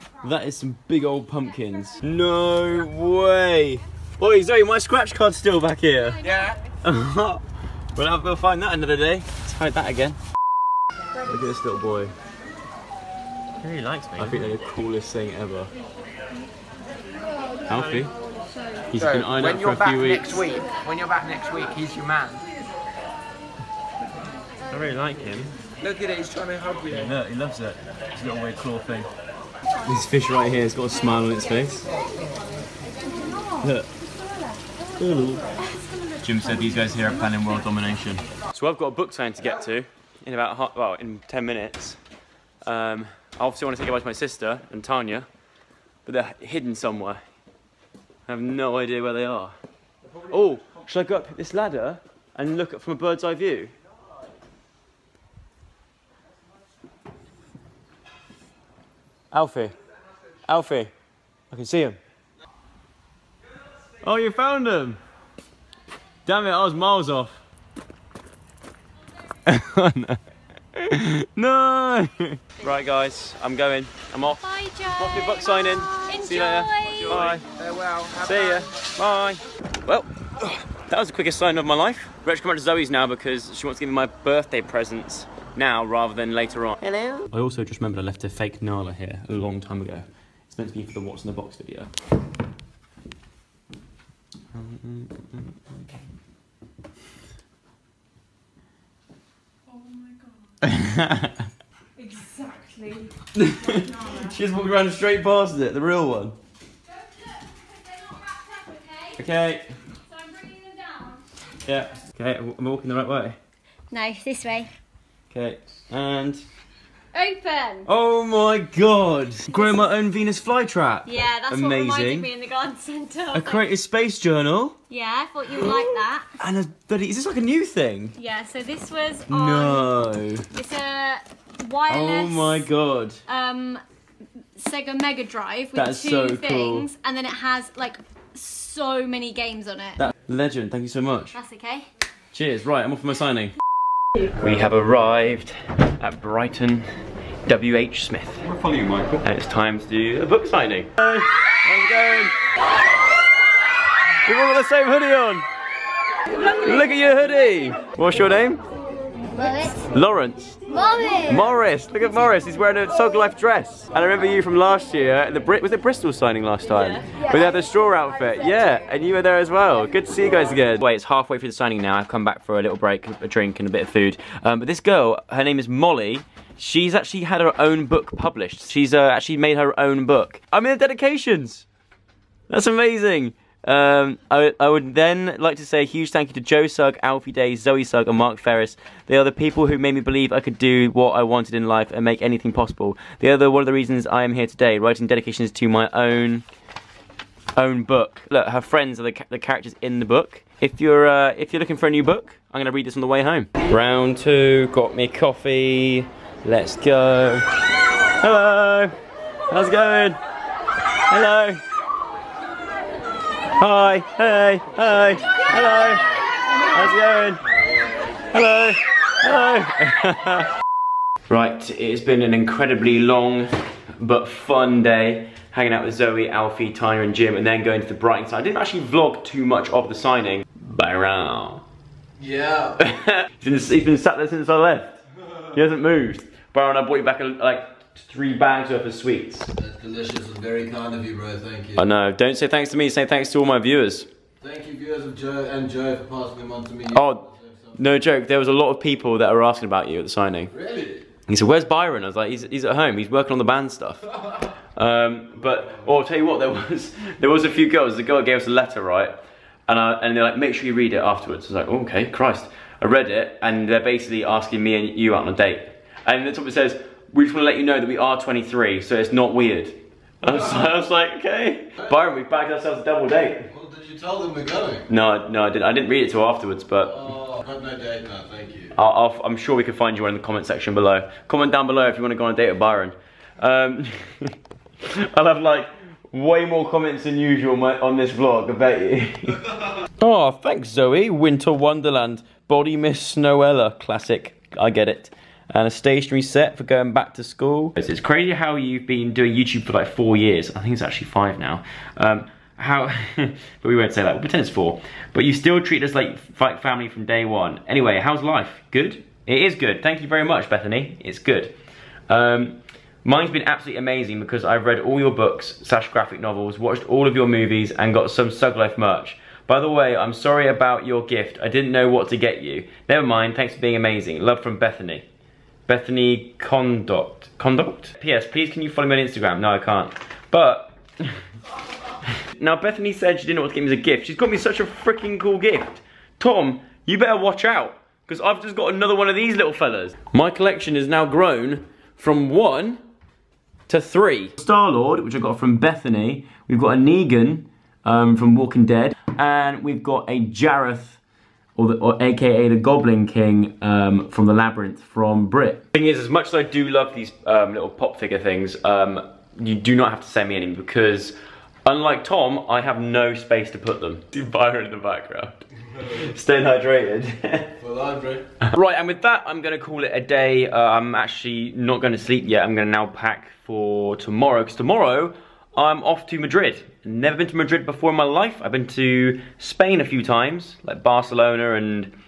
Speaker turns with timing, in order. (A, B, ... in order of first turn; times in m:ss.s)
0:00.2-0:07.4 A
0:06.0-0:06.7 B
0:07.9-0:10.2 A
0:11.2-0:12.1 A
0:13.6-0:14.4 C
0:14.2-0:15.7 A
0:17.7-0:18.1 A
0:17.7-0:18.1 C
0:18.9-0:20.4 A
0:19.0-0:22.4 D
0:24.7-0:25.5 C
0:25.8-0:27.1 D
0:26.9-0:29.1 A
0:29.8-0:31.9 A
0:33.2-0:34.6 E
0:33.6-0:33.9 A
0:35.0-0:35.5 A
0:35.7-0:37.2 E
0:36.2-0:42.0 A
0:42.6-0:45.3 A
0:46.0-0:47.2 A
0:48.3-0:49.6 A
0:50.3-0:53.7 A
0:59.3-0:59.7 A
1:00.4-1:00.9 A
1:01.5-1:02.0 A
1:04.0-1:05.0 A
1:06.2-1:07.4 A
1:09.4-1:10.2 A
1:10.8-1:14.4 A
1:14.4-1:17.2 B
1:14.9-1:17.4 A
1:17.0-1:18.7 D
1:18.2-1:31.9 A
1:34.5-1:35.9 A
1:39.7-1:40.6 E
1:40.6-1:41.3 A
1:42.0-1:44.3 E
1:43.3-1:46.4 A
1:47.0-1:49.2 B
1:49.2-1:49.7 A
1:50.1-1:51.2 B
1:51.6-1:53.4 A
1:53.9-1:54.7 B
1:55.3-1:56.4 A
1:57.1-1:57.9 B
1:57.8-2:02.3 A
1:59.5-1:59.8 B
2:01.0-2:03.6 B
2:03.3-2:04.8 A
2:04.9-2:06.3 B
2:05.6-2:08.1 A
2:08.2-2:10.0 B
2:09.3-2:10.4 A
2:10.5-2:12.6 B
2:11.9-2:13.2 A
2:13.3-2:13.8 B
2:14.6-2:20.0 B
2:15.7-2:16.9 A
2:20.0-2:21.4 A
2:21.3-2:21.9 B
2:22.3-2:23.5 A
2:24.3-2:26.9 A
2:27.5-2:32.3 A
2:34.2-2:35.4 A
2:36.4-2:38.6 A
2:39.3-2:39.8 B
2:39.9-2:40.5 A
2:40.7-2:41.4 B
2:41.3-3:01.6 A
3:02.5-3:16.4 A
3:17.6-3:27.4 A
3:28.2-3:28.9 A
3:29.5-3:30.2 A
3:31.1-3:31.6 A
3:33.6-3:36.1 A
3:36.7-3:37.4 A
3:38.3-3:40.4 A
3:41.3-3:51.6 A
3:52.2-3:52.7 F
3:52.8-3:55.0 A
3:55.5-3:59.5 A
3:59.6-4:01.8 F
4:01.8-4:04.1 A
4:04.4-4:07.7 F
4:06.9-4:07.2 A
4:07.8-4:10.5 A
4:10.5-4:11.0 F
4:11.3-4:14.1 A
4:14.8-4:19.1 A
4:19.7-4:33.5 A
4:33.5-4:34.8 F
4:34.9-4:37.1 A
4:37.2-4:38.7 F
4:38.8-4:44.3 A
4:44.9-4:49.4 A
4:50.0-5:11.5 A
5:12.1-5:25.0 A
5:25.7-5:31.2 A
5:32.2-5:42.8 A
5:43.7-5:51.0 A
5:51.6-6:07.5 A
6:07.6-6:08.2 F
6:08.4-6:21.9 A